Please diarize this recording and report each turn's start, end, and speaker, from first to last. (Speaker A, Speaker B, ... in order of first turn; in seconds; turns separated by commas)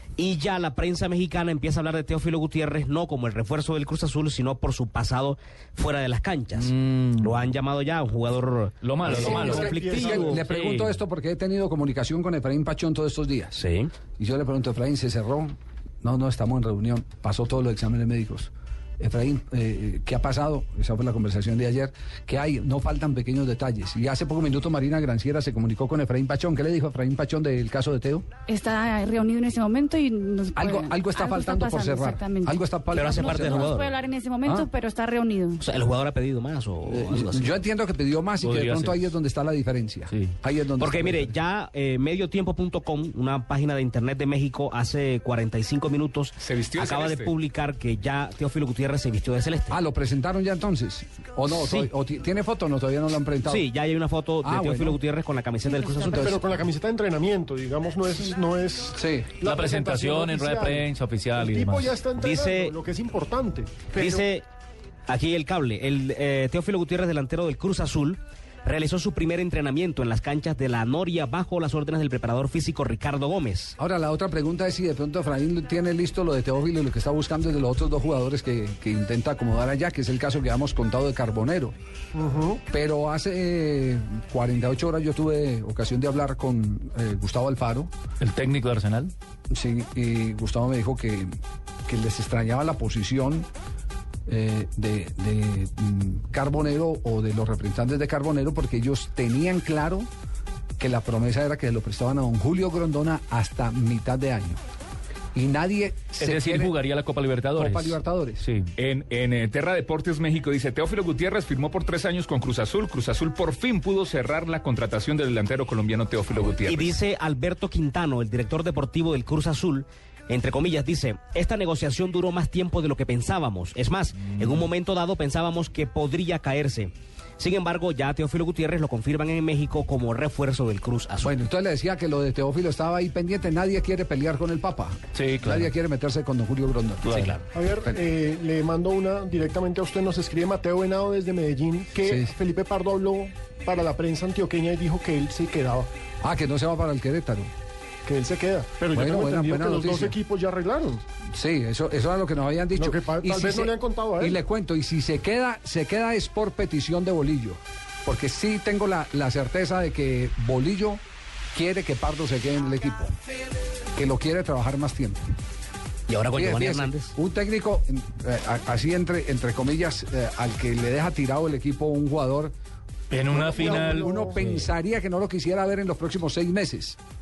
Speaker A: 0.2-10.4, Speaker B: 6.6-7.5, Speaker B: 8.8-9.7, Speaker C: 9.1-10.4, Speaker D: 9.1-13.6, Speaker B: 10.4-11.0, Speaker A: 13.6-13.9, Speaker D: 14.2-28.3, Speaker E: 28.5-35.6, Speaker D: 30.6-33.8, Speaker A: 32.9-34.0, Speaker D: 34.4-34.7, Speaker A: 35.6-37.5, Speaker D: 36.9-41.3, Speaker B: 38.4-39.1, Speaker A: 40.8-49.8, Speaker F: 46.4-47.3, Speaker D: 49.7-53.7, Speaker A: 51.5-51.9, Speaker A: 53.5-56.4, Speaker D: 54.4-55.0, Speaker C: 56.1-64.2, Speaker D: 59.0-59.3, Speaker B: 59.4-61.9, Speaker A: 62.2-62.8, Speaker A: 63.9-64.5, Speaker A: 65.1-73.8, Speaker D: 73.8-81.7, Speaker C: 82.1-82.6, Speaker D: 82.7-87.9, Speaker B: 88.2-89.1, Speaker D: 89.5-91.3, Speaker D: 91.9-93.5, Speaker D: 94.3-100.1, Speaker D: 100.8-104.6, Speaker D: 105.3-106.7, Speaker B: 106.2-108.7, Speaker D: 107.6-108.5, Speaker F: 108.8-116.9, Speaker A: 116.6-131.3, Speaker D: 131.2-137.4, Speaker B: 135.1-135.7, Speaker B: 137.0-137.4, Speaker C: 137.5-145.9, Speaker D: 142.0-142.3, Speaker D: 146.2-147.5, Speaker C: 148.1-151.0, Speaker D: 148.9-150.2, Speaker D: 151.3-161.0, Speaker C: 152.8-154.4, Speaker D: 161.5-163.2, Speaker D: 163.9-165.2, Speaker A: 166.1-167.2, Speaker D: 166.3-172.5, Speaker B: 173.1-174.7, Speaker C: 173.3-174.4, Speaker D: 173.6-177.0